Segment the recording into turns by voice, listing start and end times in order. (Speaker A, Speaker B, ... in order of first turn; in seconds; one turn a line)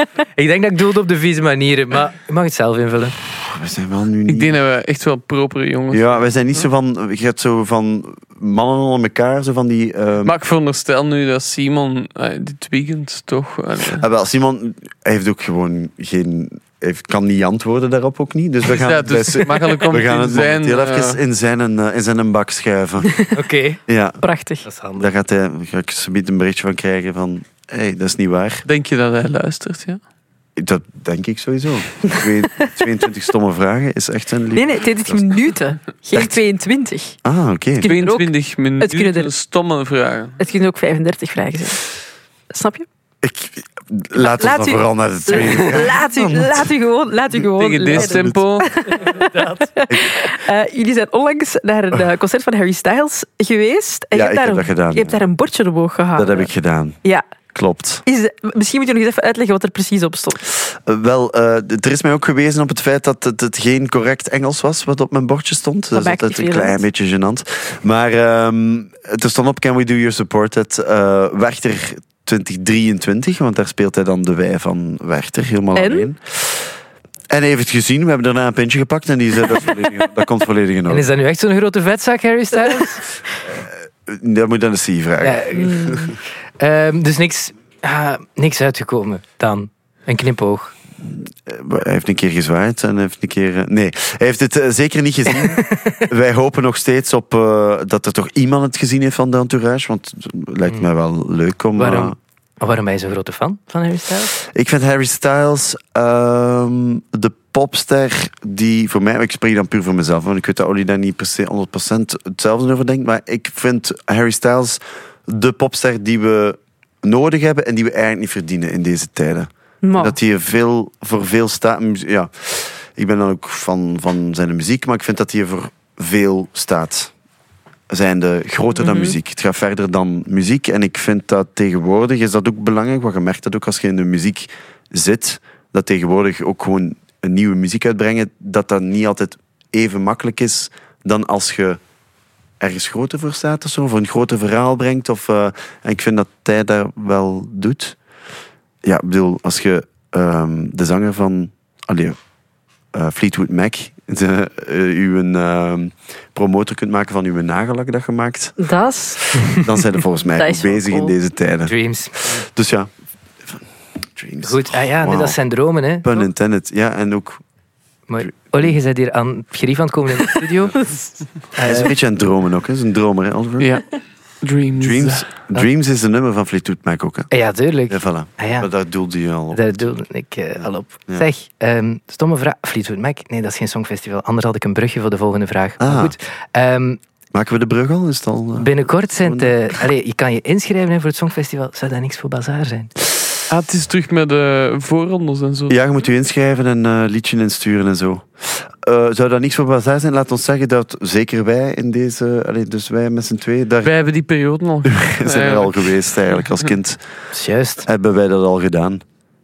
Speaker A: 0.3-3.1
Speaker B: 3.2-4.5
Speaker C: 4.3-6.7
Speaker B: 5.9-10.3
Speaker C: 10.2-14.0
Speaker B: 13.9-23.2
Speaker C: 18.7-21.2
Speaker A: 23.3-23.8
Speaker B: 23.9-24.2
Speaker D: 24.2-24.6
Speaker A: 24.6-25.1
Speaker B: 25.0-28.6
Speaker C: 28.6-30.0
Speaker B: 30.6-35.5
Speaker D: 34.5-37.2
Speaker B: 37.2-37.9
Speaker D: 37.8-39.3
Speaker C: 37.8-40.4
Speaker D: 40.4-41.9
Speaker D: 42.5-42.9
Speaker B: 43.2-46.7
Speaker D: 44.1-56.5
Speaker C: 47.4-48.8
Speaker B: 47.9-48.4
Speaker B: 49.9-50.3
Speaker B: 54.1-55.2
Speaker B: 56.1-57.0
Speaker B: 57.5-58.0
Speaker D: 58.0-60.4
Speaker B: 60.5-76.7
Speaker D: 65.9-66.8
Speaker D: 75.7-76.1
Speaker B: 77.3-81.1
Speaker A: 80.9-83.0
Speaker B: 83.5-86.0
Speaker A: 85.2-90.7
Speaker D: 85.5-86.1
Speaker B: 91.0-102.2
Speaker A: 95.4-96.1
Speaker A: 101.8-104.3
Speaker B: 104.3-127.1
Speaker D: 119.8-120.2
Speaker B: 127.9-141.8
Speaker D: 128.8-129.2
Speaker B: 142.6-148.0
Speaker B: 148.8-152.2
Speaker B: 152.9-158.7
Speaker D: 158.6-159.3
Speaker B: 159.2-162.9
Speaker D: 160.4-161.1
Speaker A: 161.7-162.4
Speaker B: 164.1-165.4
Speaker A: 164.4-166.1
Speaker B: 166.0-167.4
Speaker A: 168.1-170.8
Speaker B: 168.2-168.7
Speaker A: 171.5-171.9
Speaker B: 171.6-173.8
Speaker C: 173.6-175.3
Speaker B: 174.8-177.3
Speaker A: 177.3-178.7
Speaker B: 177.9-179.9
Speaker A: 179.5-187.0
Speaker B: 185.8-186.1
Speaker B: 187.3-189.5
Speaker A: 188.6-192.9
Speaker C: 193.5-195.8
Speaker B: 195.7-203.9
Speaker C: 203.8-206.7
Speaker B: 204.8-207.0
Speaker A: 207.3-207.9
Speaker B: 207.8-209.0